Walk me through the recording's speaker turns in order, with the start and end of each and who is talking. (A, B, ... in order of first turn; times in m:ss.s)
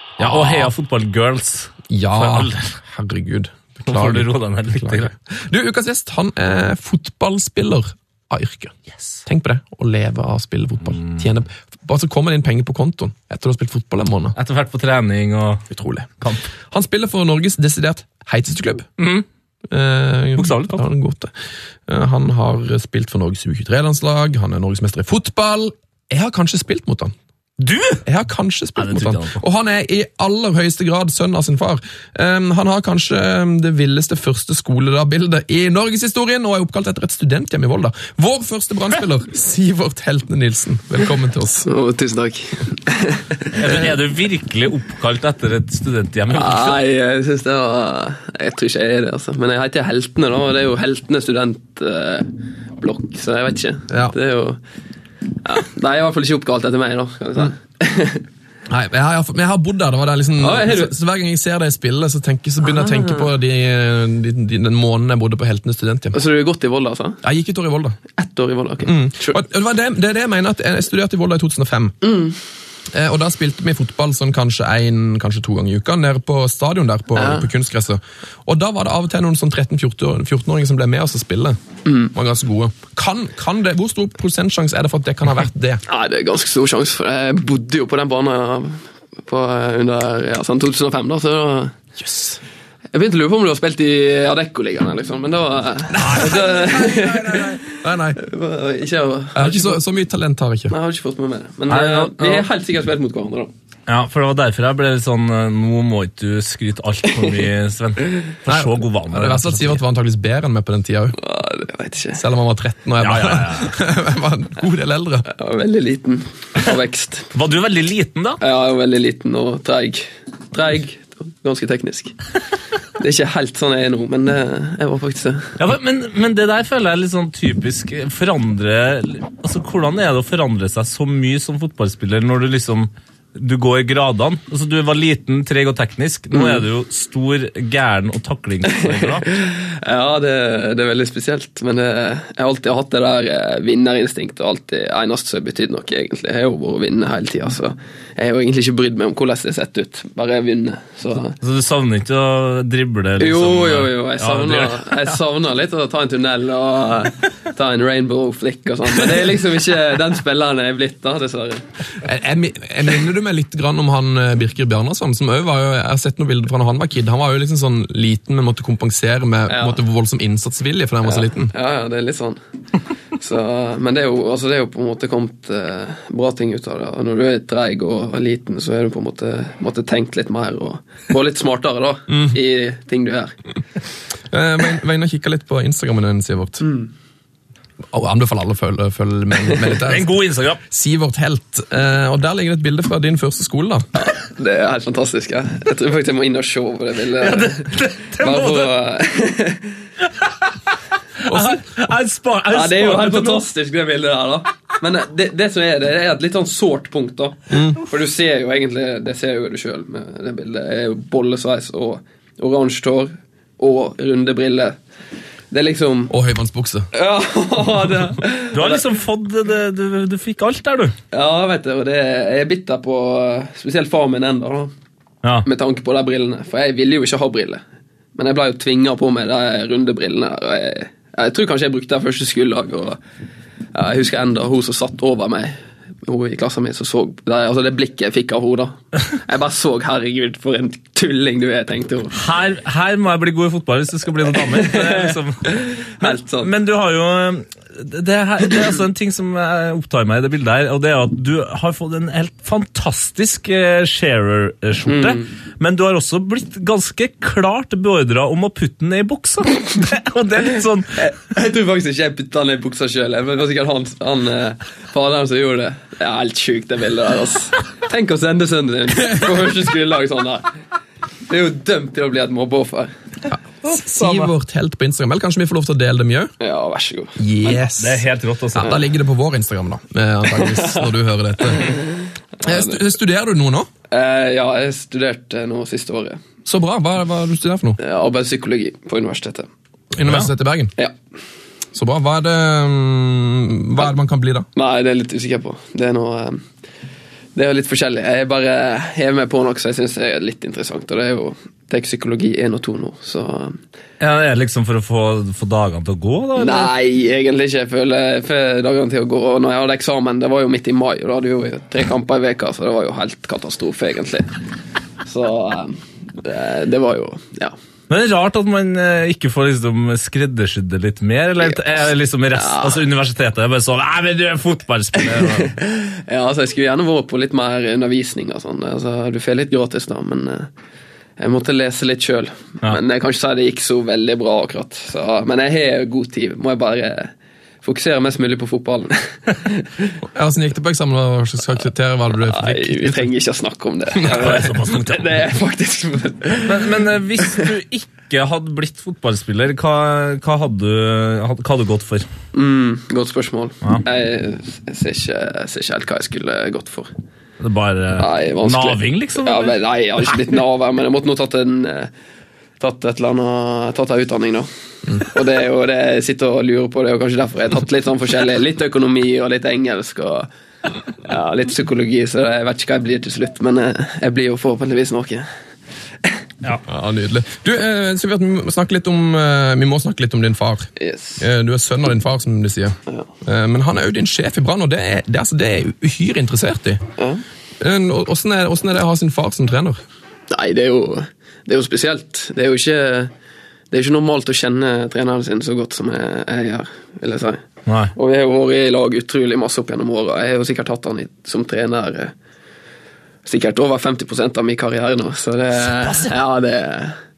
0:00.2-0:00.7 A
0:00.2-0:02.7 B
0:01.9-0:08.7 A
0:03.9-0:05.1 B
0:09.2-0:14.4 A
0:14.4-0:15.6 B
0:15.7-0:18.9 A
0:16.2-0:16.5 B
0:19.0-0:19.2 B
0:19.7-0:21.3 A
0:20.4-0:20.8 B
0:21.9-0:27.1 A
0:27.6-0:28.0 B
0:28.0-0:41.7 A
0:28.8-0:29.4 B
0:41.6-0:43.5 C
0:43.5-0:46.8 B
0:46.3-0:54.6 C
0:53.9-0:54.1 A
0:55.4-0:58.2 C
0:58.7-1:06.2 A
1:00.4-1:00.9 C
1:02.7-1:03.2 C
1:06.1-1:07.2 C
1:07.2-1:08.0 A
1:08.2-1:09.4 C
1:08.8-1:12.0 A
1:12.0-1:12.4 C
1:12.9-1:21.6 A
1:17.1-1:17.5 C
1:21.8-1:22.1 C
1:22.1-1:25.8 A
1:25.8-1:31.8 C
1:32.0-1:32.4 A
1:32.9-1:39.8 C
1:35.9-1:38.2 A
1:39.3-1:40.7 A
1:40.7-1:43.5 C
1:41.7-1:42.4 B
1:43.9-1:49.8 B
1:48.5-1:51.2 A
1:51.2-1:52.2 C
1:52.1-1:55.2 A
1:53.0-1:53.8 B
1:55.3-1:57.3 C
1:57.3-1:58.4 B
1:58.4-2:02.2 C
2:03.0-2:05.6 C
2:05.6-2:19.3 B
2:18.8-2:31.4 C
2:31.4-2:35.1 B
2:33.2-2:41.6 C
2:42.0-2:51.5 A
2:49.5-2:49.8 C
2:51.0-2:52.4 C
2:53.1-3:03.3 C
3:02.1-3:02.4 A
3:04.3-3:06.6 A
3:06.6-3:06.9 C
3:07.9-3:10.1 A
3:09.8-3:10.6 B
3:10.7-3:13.9 A
3:14.0-3:19.8 C
3:17.2-3:18.7 B
3:21.2-3:23.4 B
3:21.3-3:21.6 A
3:22.5-3:34.8 C
3:27.5-3:27.8 A
3:35.5-3:36.1 C
3:36.1-3:36.9 A
3:36.9-3:38.8 C
3:38.5-3:40.9 B
3:41.1-3:44.7 C
3:45.4-3:47.6 C
3:48.2-3:53.0 C
3:53.7-4:02.2 C
4:02.1-4:20.9 B
4:04.4-4:06.5 C
4:14.8-4:15.3 C
4:20.9-4:30.5 C
4:31.3-4:32.9 C
4:33.3-4:36.3 A
4:33.6-4:34.3 B
4:36.4-4:37.2 C
4:37.2-4:41.7 A
4:37.8-4:38.8 B
4:40.5-4:40.9 C
4:42.4-4:42.8 C
4:42.4-4:43.7 A
4:43.9-4:46.2 C
4:46.4-4:47.8 A
4:47.8-4:49.5 C
4:49.9-4:50.7 A
4:51.7-4:54.5 A
4:54.6-4:56.4 C
4:57.3-5:03.6 C
5:04.0-5:06.7 B
5:06.4-5:14.3 C
5:15.0-5:17.5 C
5:17.9-5:25.5 B
5:22.3-5:22.8 C
5:25.1-5:30.5 C
5:31.2-5:37.1 C
5:37.6-5:39.9 C
5:40.0-5:43.1 A
5:42.2-5:46.7 C
5:44.0-5:45.2 B
5:46.4-5:52.1 B
5:52.3-5:56.9 C
5:57.4-6:00.2 B
5:57.9-6:01.9 C
6:02.6-6:10.3 C
6:11.0-6:15.3 C
6:16.7-6:26.8 A
6:20.8-6:21.2 C
6:27.0-6:27.2 C
6:27.6-6:29.8 A
6:30.3-6:33.1 C
6:33.7-6:37.4 C
6:37.6-6:37.9 B
6:37.9-6:42.1 C
6:43.2-6:47.0 C
6:45.8-6:46.1 B